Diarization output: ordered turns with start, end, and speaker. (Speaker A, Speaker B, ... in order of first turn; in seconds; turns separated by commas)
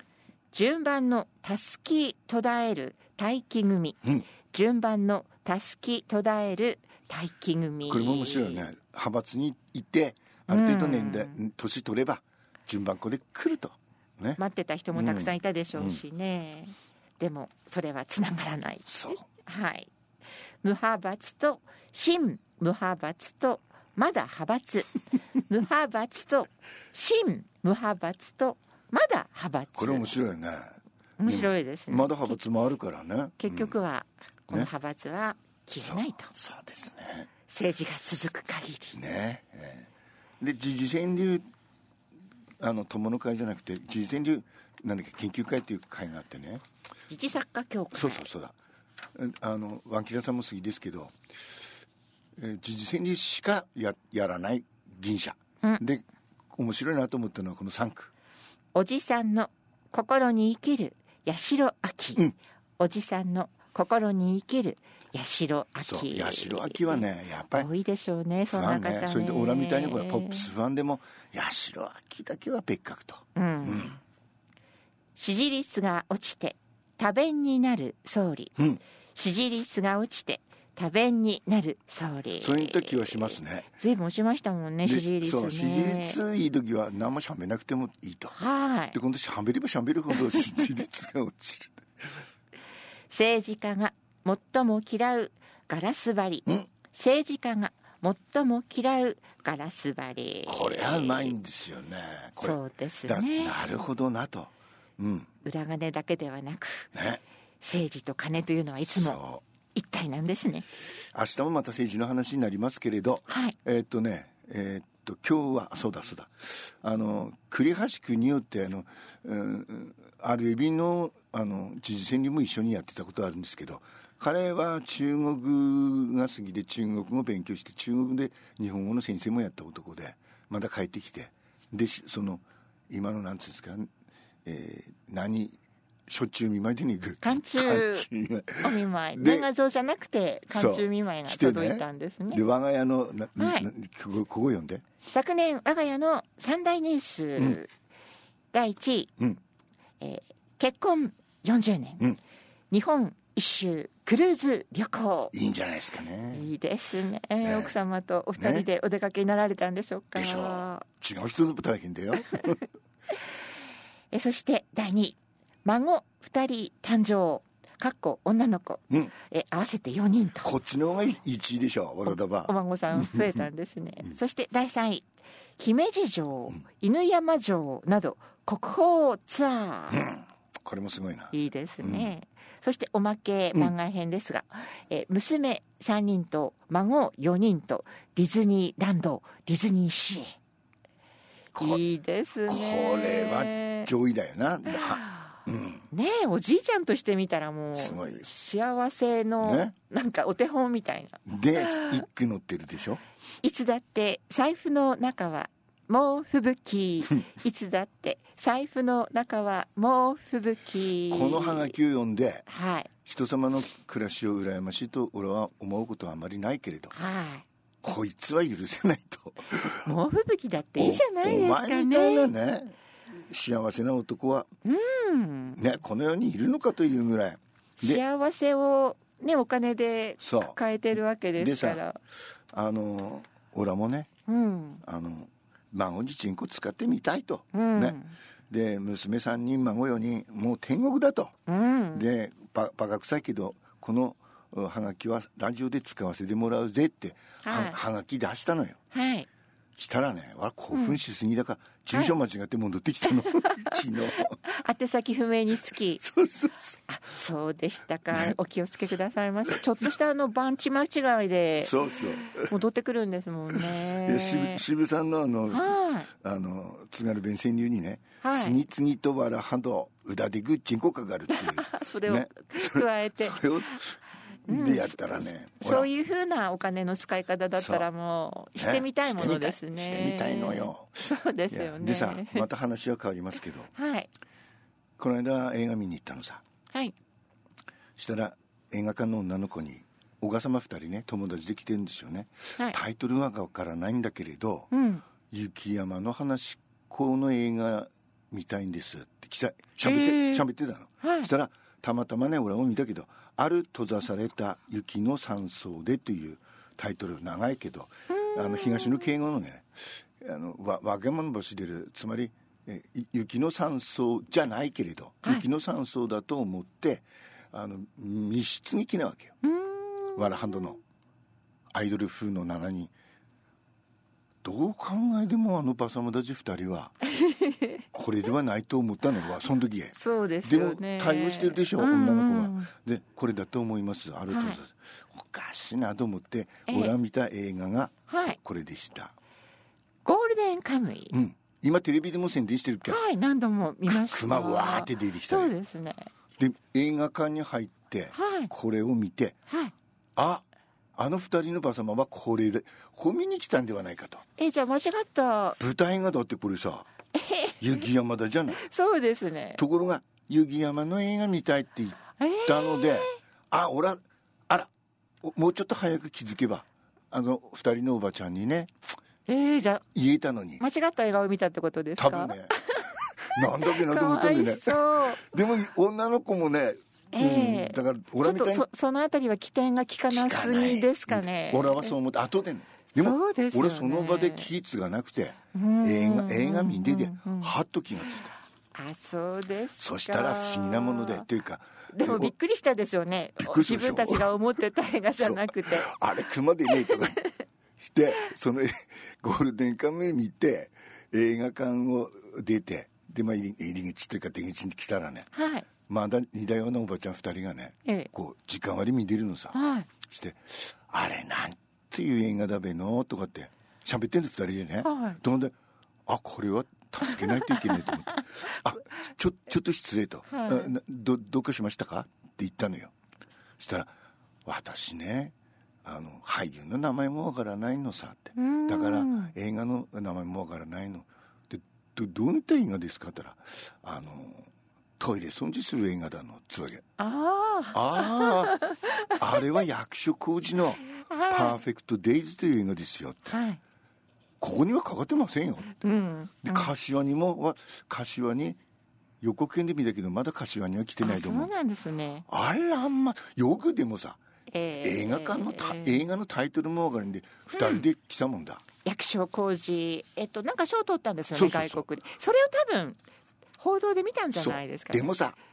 Speaker A: 0.5-8.6, Speaker B: 7.9-14.4, Speaker A: 10.5-11.4, Speaker A: 14.4-19.9, Speaker B: 14.9-16.0, Speaker B: 18.9-19.2, Speaker A: 20.6-30.1, Speaker B: 29.7-33.8, Speaker A: 31.2-32.4, Speaker A: 33.4-36.3, Speaker B: 35.8-37.3, Speaker A: 37.5-39.0, Speaker B: 38.9-41.5, Speaker B: 42.6-46.6, Speaker A: 47.1-48.3, Speaker B: 47.9-48.5, Speaker B: 49.1-51.1, Speaker B: 52.4-58.1, Speaker A: 58.7-62.2, Speaker A: 62.8-70.5, Speaker B: 65.8-67.7, Speaker B: 68.5-74.0, Speaker A: 73.3-73.9, Speaker A: 75.2-78.5, Speaker A: 79.1-86.2, Speaker B: 82.4-83.7, Speaker B: 84.8-88.4, Speaker A: 88.3-89.0, Speaker B: 88.9-92.2, Speaker A: 93.1-101.3, Speaker B: 100.5-105.3, Speaker A: 102.4-103.6, Speaker A: 105.4-106.9, Speaker B: 106.9-107.2, Speaker A: 107.6-109.2, Speaker B: 108.8-109.4, Speaker A: 109.7-110.7, Speaker B: 110.9-133.9, Speaker A: 113.3-113.5, Speaker B: 134.4-139.5, Speaker A: 137.2-138.1, Speaker A: 138.6-142.4, Speaker B: 140.5-144.8, Speaker A: 143.4-143.7, Speaker A: 145.1-147.7, Speaker A: 148.5-149.1, Speaker A: 150.0-152.0, Speaker A: 152.7-155.3, Speaker B: 155.3-156.5, Speaker A: 156.3-160.8, Speaker B: 157.4-157.7, Speaker B: 158.4-158.7, Speaker B: 160.1-162.6, Speaker A: 164.1-170.5, Speaker B: 170.4-173.5, Speaker A: 172.1-180.0, Speaker B: 179.9-182.1, Speaker A: 181.3-190.4, Speaker B: 191.5-191.8, Speaker A: 191.6-193.9, Speaker B: 192.5-195.9, Speaker A: 194.7-195.1, Speaker A: 195.9-202.0, Speaker B: 197.7-198.3, Speaker B: 199.4-199.7, Speaker B: 201.2-203.0, Speaker A: 203.4-211.7, Speaker B: 211.1-212.5, Speaker A: 212.5-212.9, Speaker B: 213.0-216.9, Speaker A: 216.9-217.4, Speaker B: 217.8-219.9, Speaker A: 219.8-222.3, Speaker B: 220.8-224.5, Speaker A: 224.6-225.6, Speaker B: 225.6-228.0, Speaker A: 227.8-232.0, Speaker B: 230.2-230.6, Speaker B: 231.3-231.8, Speaker B: 232.5-234.1, Speaker A: 234.3-234.8, Speaker B: 234.8-238.0, Speaker A: 237.5-238.2, Speaker B: 238.5-241.3, Speaker A: 241.5-242.0, Speaker B: 241.9-248.8, Speaker A: 247.4-247.8, Speaker A: 248.9-249.3, Speaker B: 249.8-254.3, Speaker A: 250.7-251.0, Speaker A: 253.4-256.0, Speaker B: 255.7-256.8, Speaker A: 256.9-264.6, Speaker B: 258.1-258.4, Speaker B: 259.5-259.8, Speaker B: 261.6-262.6, Speaker B: 263.5-275.9, Speaker A: 265.5-266.1, Speaker A: 268.2-268.6, Speaker A: 271.3-273.8, Speaker A: 274.5-282.4, Speaker B: 277.6-277.9, Speaker B: 278.6-283.7, Speaker A: 283.7-284.1, Speaker B: 285.0-286.4, Speaker B: 288.0-294.7, Speaker A: 294.7-295.0, Speaker B: 295.3-319.3, Speaker A: 299.8-300.4, Speaker A: 301.0-301.3, Speaker A: 308.1-309.0, Speaker A: 319.4-320.8, Speaker B: 320.1-320.8, Speaker B: 321.7-322.9, Speaker B: 324.4-326.9, Speaker A: 327.1-327.8, Speaker B: 327.9-339.1, Speaker A: 329.9-332.7, Speaker A: 334.3-334.6, Speaker A: 336.7-336.9, Speaker A: 338.1-338.4, Speaker A: 340.0-341.1, Speaker B: 341.1-343.0, Speaker A: 342.8-346.1, Speaker B: 343.9-345.5, Speaker B: 346.4-349.4, Speaker A: 348.1-348.5, Speaker A: 349.5-349.7, Speaker B: 350.1-350.4, Speaker B: 350.9-354.2, Speaker A: 354.4-355.6, Speaker B: 355.6-356.9, Speaker A: 357.1-357.8, Speaker B: 357.6-358.6, Speaker A: 358.5-359.6, Speaker B: 359.6-364.7, Speaker A: 362.2-363.1, Speaker B: 365.2-368.7, Speaker A: 369.3-369.8, Speaker B: 369.9-370.6, Speaker A: 370.6-375.4, Speaker B: 372.0-378.7, Speaker A: 377.1-381.9, Speaker B: 380.1-388.3, Speaker A: 383.0-384.5, Speaker A: 385.5-387.5, Speaker A: 388.7-391.2, Speaker B: 389.8-392.3, Speaker A: 391.9-395.9, Speaker B: 393.4-394.3, Speaker B: 395.2-397.2, Speaker A: 396.7-397.3, Speaker B: 397.8-405.3, Speaker A: 405.3-405.7, Speaker B: 405.9-415.5, Speaker A: 409.5-409.9, Speaker A: 414.8-415.2, Speaker B: 416.1-422.9, Speaker A: 417.2-417.9, Speaker A: 420.3-420.7, Speaker B: 423.6-423.9, Speaker B: 424.4-425.3, Speaker B: 425.8-436.8, Speaker A: 428.4-429.3, Speaker A: 437.0-439.1, Speaker B: 437.7-443.4, Speaker A: 441.0-441.6, Speaker A: 443.3-443.6, Speaker B: 444.4-445.8, Speaker A: 445.8-446.7, Speaker B: 446.4-448.6, Speaker B: 449.2-451.5, Speaker A: 451.0-452.2, Speaker B: 452.3-454.2, Speaker A: 454.5-456.0, Speaker B: 454.8-458.6, Speaker A: 457.5-457.8, Speaker A: 458.8-463.0, Speaker B: 461.3-461.9, Speaker A: 463.6-465.1, Speaker B: 464.3-465.4